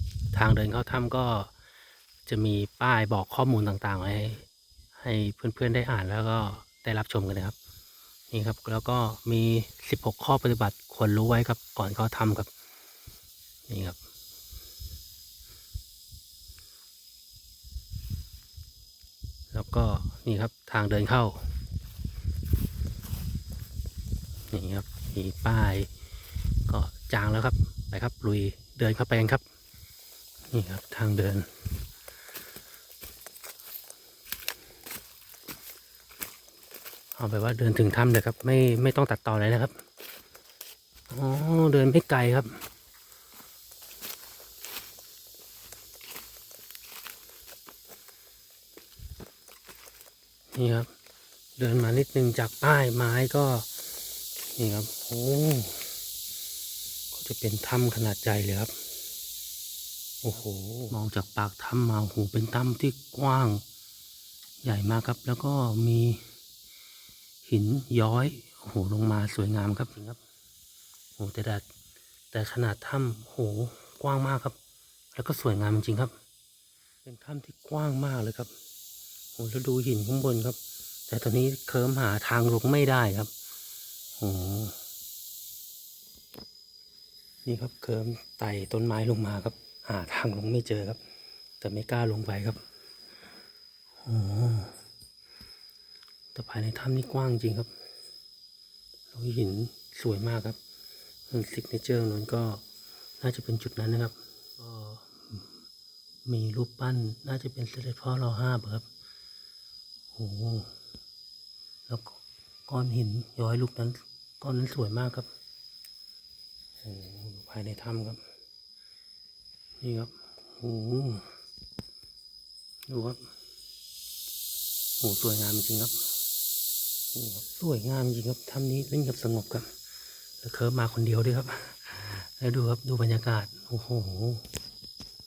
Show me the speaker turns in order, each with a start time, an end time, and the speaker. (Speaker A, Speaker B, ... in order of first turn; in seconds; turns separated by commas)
Speaker A: 0.3-1.5, Speaker A: 2.3-4.5, Speaker A: 5.0-7.5, Speaker A: 8.3-12.5, Speaker A: 13.7-14.0, Speaker A: 19.5-21.5, Speaker A: 24.5-25.9, Speaker A: 26.7-29.4, Speaker A: 30.5-31.5, Speaker A: 37.2-39.7, Speaker A: 41.1-42.6, Speaker A: 50.5-50.9, Speaker A: 51.6-53.7, Speaker A: 54.5-55.9, Speaker A: 57.1-58.7, Speaker A: 60.2-63.6, Speaker A: 64.6-66.2, Speaker A: 67.4-70.2, Speaker A: 71.2-71.6, Speaker A: 72.3-74.6, Speaker A: 75.1-76.1, Speaker A: 77.0-78.5, Speaker A: 79.3-80.6, Speaker A: 81.1-83.3, Speaker A: 84.2-84.8, Speaker A: 87.4-91.0, Speaker A: 91.6-92.6, Speaker A: 94.0-94.7, Speaker A: 96.3-97.7, Speaker A: 99.1-100.6, Speaker A: 101.3-102.6, Speaker A: 103.2-105.5, Speaker A: 106.2-108.8, Speaker A: 110.1-110.7, Speaker A: 111.9-115.3, Speaker A: 116.8-118.2, Speaker A: 119.8-121.2, Speaker A: 122.9-123.2, Speaker A: 125.0-126.0, Speaker A: 127.1-129.7, Speaker A: 130.4-134.4